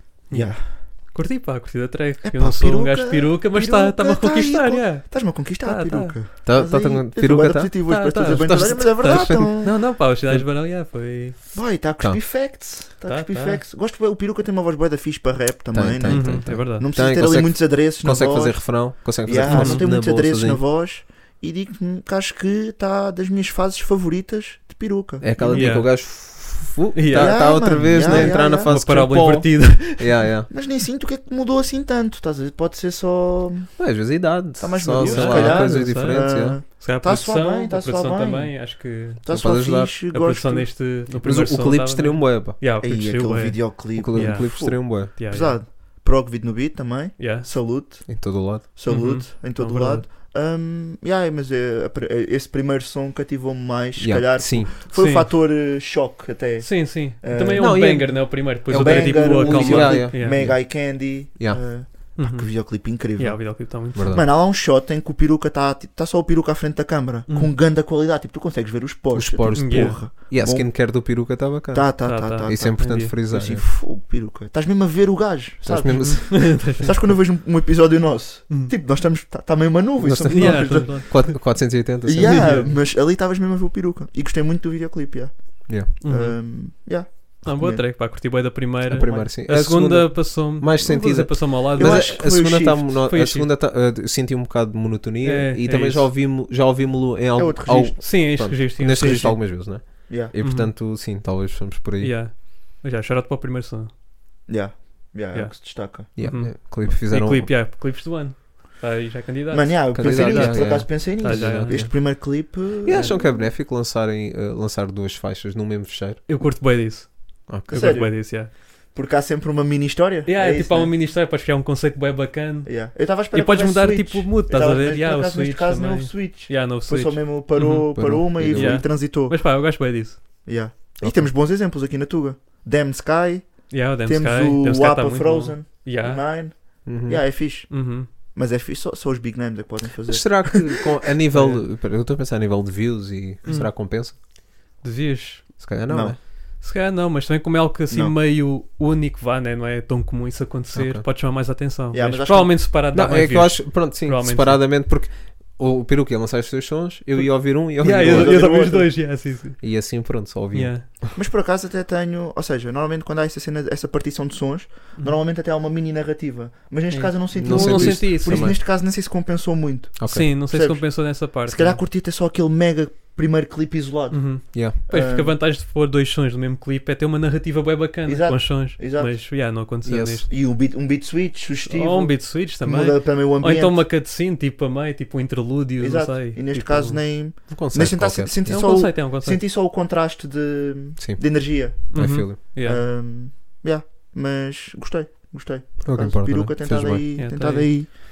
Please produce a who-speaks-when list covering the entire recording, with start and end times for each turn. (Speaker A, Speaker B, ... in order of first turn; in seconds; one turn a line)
Speaker A: 0.3-6.2
Speaker B: 0.3-0.6
Speaker B: 2.2-9.8
Speaker C: 6.4-9.7
Speaker A: 7.9-11.4
Speaker B: 11.5-25.8
Speaker A: 13.0-13.6
Speaker C: 15.7-20.6
Speaker A: 16.1-16.9
Speaker A: 19.4-19.8
Speaker C: 25.2-30.5
Speaker A: 25.5-26.2
Speaker A: 26.9-30.2
Speaker B: 27.1-28.7
Speaker B: 30.5-33.7
Speaker C: 33.8-36.6
Speaker B: 34.6-40.7
Speaker A: 35.0-39.2
Speaker C: 39.3-39.9
Speaker A: 40.1-45.6
Speaker C: 41.2-42.6
Speaker B: 42.8-58.1
Speaker C: 43.9-45.1
Speaker A: 47.2-47.5
Speaker C: 48.1-48.6
Speaker A: 48.9-50.0
Speaker C: 54.0-54.7
Speaker A: 54.9-55.3
Speaker A: 56.6-60.4
Speaker C: 57.5-61.6
Speaker B: 58.7-71.1
Speaker A: 62.2-64.1
Speaker C: 63.9-64.3
Speaker C: 69.1-73.6
Speaker A: 69.5-70.0
Speaker B: 71.7-81.3
Speaker A: 72.0-73.1
Speaker C: 75.6-76.8
Speaker A: 76.0-76.9
Speaker C: 80.0-82.7
Speaker A: 80.3-81.3
Speaker B: 82.0-87.8
Speaker A: 82.2-82.7
Speaker A: 86.0-86.7
Speaker A: 87.4-92.5
Speaker C: 88.9-102.2
Speaker B: 91.7-93.0
Speaker A: 93.1-93.5
Speaker A: 95.2-96.1
Speaker B: 97.4-98.2
Speaker A: 97.8-99.4
Speaker B: 99.0-100.3
Speaker A: 100.4-100.7
Speaker A: 102.0-103.9
Speaker B: 104.5-106.1
Speaker A: 105.3-111.9
Speaker C: 106.2-107.5
Speaker B: 109.5-113.3
Speaker C: 109.9-116.2
Speaker A: 112.9-113.2
Speaker A: 116.3-118.5
Speaker C: 117.5-118.0
Speaker B: 117.7-120.9
Speaker A: 120.2-130.2
Speaker B: 122.7-129.4
Speaker C: 127.9-128.8
Speaker B: 130.4-140.8
Speaker C: 131.0-131.3
Speaker A: 133.7-136.2
Speaker C: 136.8-137.2
Speaker A: 137.7-138.1
Speaker C: 140.1-144.2
Speaker A: 141.3-141.6
Speaker A: 143.4-144.2
Speaker A: 144.8-145.6
Speaker C: 145.6-146.2
Speaker B: 145.9-146.2
Speaker A: 146.4-154.6
Speaker B: 147.9-148.2
Speaker C: 150.7-151.0
Speaker B: 151.9-152.6
Speaker C: 152.9-158.5
Speaker A: 157.2-160.0
Speaker B: 158.0-158.9
Speaker C: 159.6-161.1
Speaker A: 160.5-160.9
Speaker B: 161.1-175.4
Speaker A: 166.9-168.6
Speaker C: 167.3-168.6
Speaker C: 170.0-170.3
Speaker A: 170.1-171.8
Speaker A: 174.1-180.3
Speaker B: 178.0-179.1
Speaker C: 179.8-180.2
Speaker B: 180.3-183.8
Speaker A: 181.7-186.4
Speaker B: 185.8-197.9
Speaker C: 186.5-188.6
Speaker A: 188.4-189.4
Speaker C: 191.0-192.4
Speaker A: 191.9-192.8
Speaker C: 195.8-197.1
Speaker A: 197.2-197.7